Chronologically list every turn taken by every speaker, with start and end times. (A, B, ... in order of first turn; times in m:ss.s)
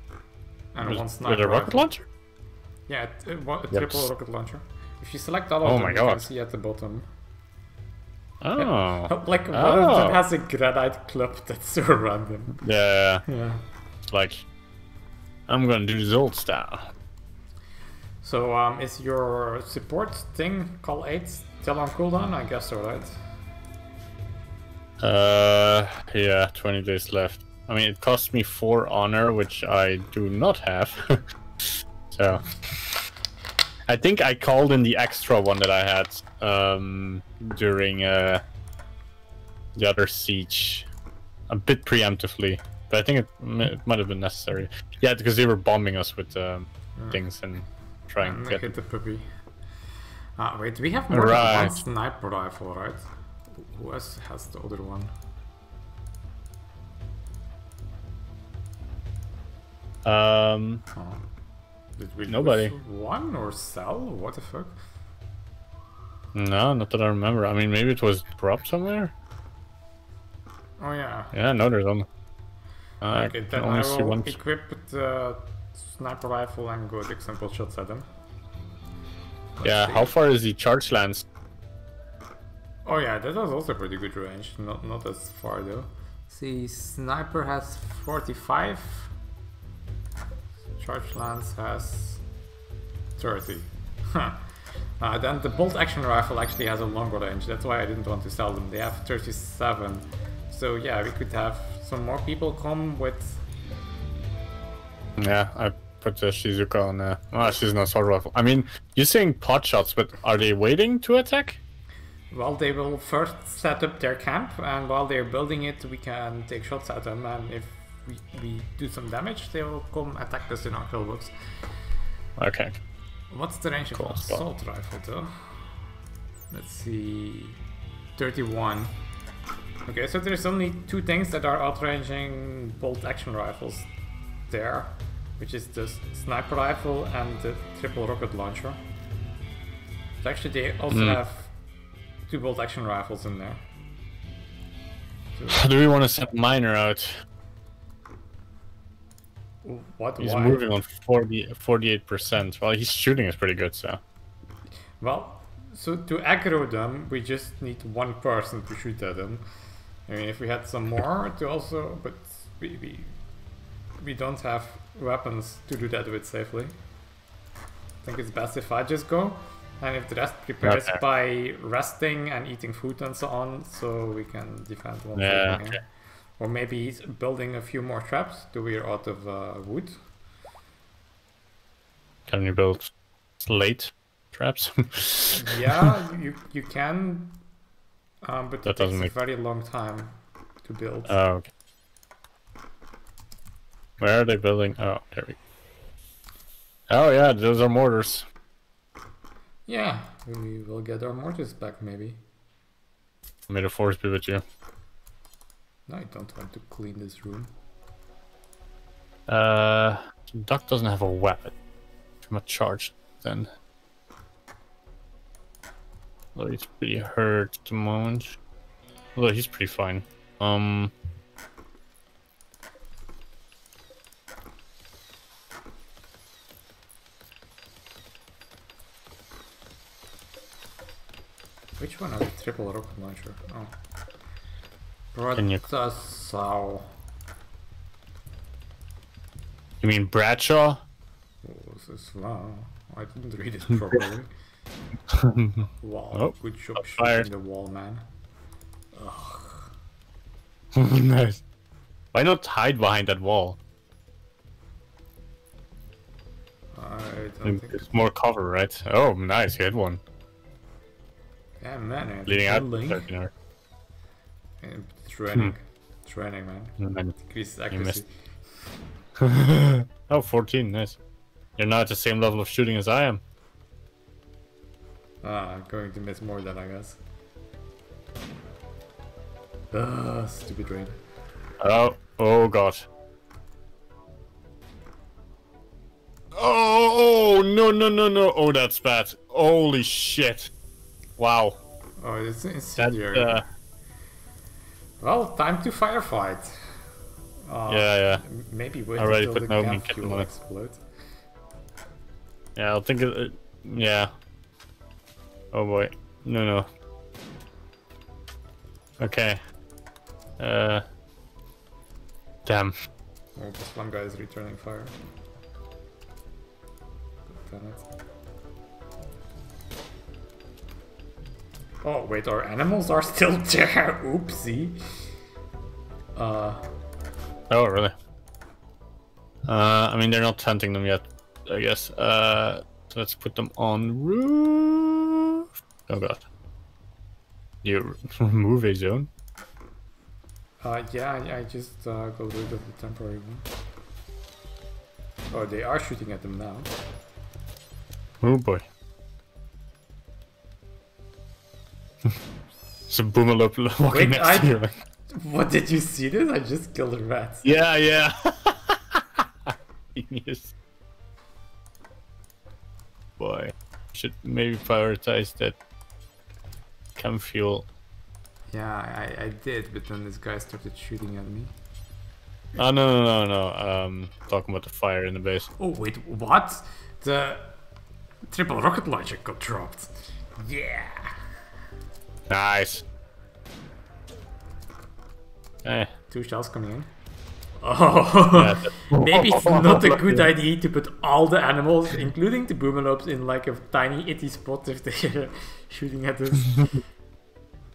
0:00.7-0:01.9 A
0:00.8-0:02.1 B
0:02.9-0:07.1 A
0:03.7-0:04.0 B
0:05.6-0:06.3 B
0:08.4-0:10.2 B
0:08.6-0:12.6 A
0:12.6-0:13.2 B
0:13.3-0:13.6 A
0:14.1-0:14.4 B
0:15.5-0:16.9 B
0:18.2-0:23.2 A
0:25.0-0:33.0 B
0:33.9-0:38.4 B
0:39.8-0:40.9 B
0:41.5-0:48.7 B
0:47.0-0:47.2 A
0:48.2-0:49.3 A
0:50.4-0:55.1 A
0:51.1-0:51.8 B
1:00.0-1:00.8 B
1:00.9-1:01.2 A
1:02.0-1:04.8 A
1:02.3-1:02.8 B
1:06.3-1:09.1 B
1:10.8-1:11.4 A
1:11.3-1:12.1 B
1:13.0-1:18.1 A
1:13.0-1:14.4 B
1:19.6-1:20.1 A
1:19.6-1:21.3 B
1:22.8-1:29.1 A
1:30.8-1:32.2 A
1:33.2-1:43.4 A
1:45.2-1:51.6 B
1:52.3-2:01.3 A
2:02.4-2:02.8 B
2:03.3-2:05.7 A
2:04.0-2:04.4 B
2:06.5-2:07.6 A
2:08.2-2:08.9 A
2:09.9-2:13.9 A
2:14.5-2:18.8 A
2:20.2-2:21.5 A
2:20.9-2:21.2 B
2:22.3-2:23.6 A
2:25.4-2:25.7 A
2:25.5-2:27.2 B
2:29.6-2:30.7 A
2:30.2-2:34.0 B
2:35.0-2:39.4 A
2:40.1-2:43.2 A
2:44.0-2:46.7 A
2:48.0-2:55.9 A
2:50.6-2:51.0 B
2:55.2-2:55.8 B
2:56.4-3:00.0 A
3:02.3-3:05.9 B
3:05.4-3:07.4 A
3:08.2-3:11.2 A
3:08.6-3:09.1 B
3:11.1-3:11.5 B
3:14.0-3:15.4 B
3:16.9-3:18.2 B
3:19.7-3:22.2 A
3:23.5-3:24.4 B
3:25.9-3:27.5 A
3:29.3-3:31.5 B
3:32.3-3:33.5 B
3:36.4-3:38.4 B
3:39.2-3:40.9 B
3:51.8-3:53.8 A
3:55.1-3:56.9 A
3:55.4-3:55.6 B
3:59.8-4:00.8 B
4:01.4-4:04.3 A
4:05.1-4:07.3 B
4:05.6-4:08.0 A
4:09.0-4:09.7 A
4:10.7-4:11.4 B
4:12.1-4:13.6 B
4:16.8-4:17.9 A
4:17.4-4:20.0 B
4:21.6-4:23.1 A
4:22.3-4:23.3 B
4:24.6-4:28.1 A
4:26.8-4:27.1 B
4:27.7-4:28.0 B
4:29.2-4:31.0 B
4:31.6-4:33.2 B
4:35.2-4:37.0 A
4:39.7-4:41.0 A
4:41.6-4:42.9 B
4:46.3-4:50.5 B
4:51.2-4:51.6 B
4:52.0-4:53.4 A
4:52.8-4:53.4 B
4:55.0-4:56.8 A
4:57.5-5:00.8 A
4:57.7-4:58.2 B
4:59.0-5:00.3 B
5:02.6-5:04.1 B
5:05.5-5:06.7 B
5:09.0-5:09.4 B
5:10.4-5:10.8 B
5:12.4-5:12.7 B
5:13.4-5:15.0 A
5:17.3-5:17.9 A
5:21.8-5:24.8 A
5:26.2-5:26.7 A
5:27.5-5:27.9 B
5:29.5-5:36.2 B
5:37.6-5:39.1 B
5:40.6-5:43.5 A
5:45.3-5:46.7 A
5:48.2-5:48.7 B
5:52.9-5:54.7 B
5:53.9-5:57.5 A
5:57.4-6:00.5 B
6:03.2-6:05.6 B
6:07.0-6:07.7 B
6:08.5-6:11.5 A
6:12.6-6:15.5 B
6:15.6-6:17.6 A
6:18.3-6:21.1 A
6:22.3-6:22.8 B
6:25.6-6:25.9 B
6:26.1-6:26.9 A
6:27.6-6:36.8 A
6:28.4-6:30.3 B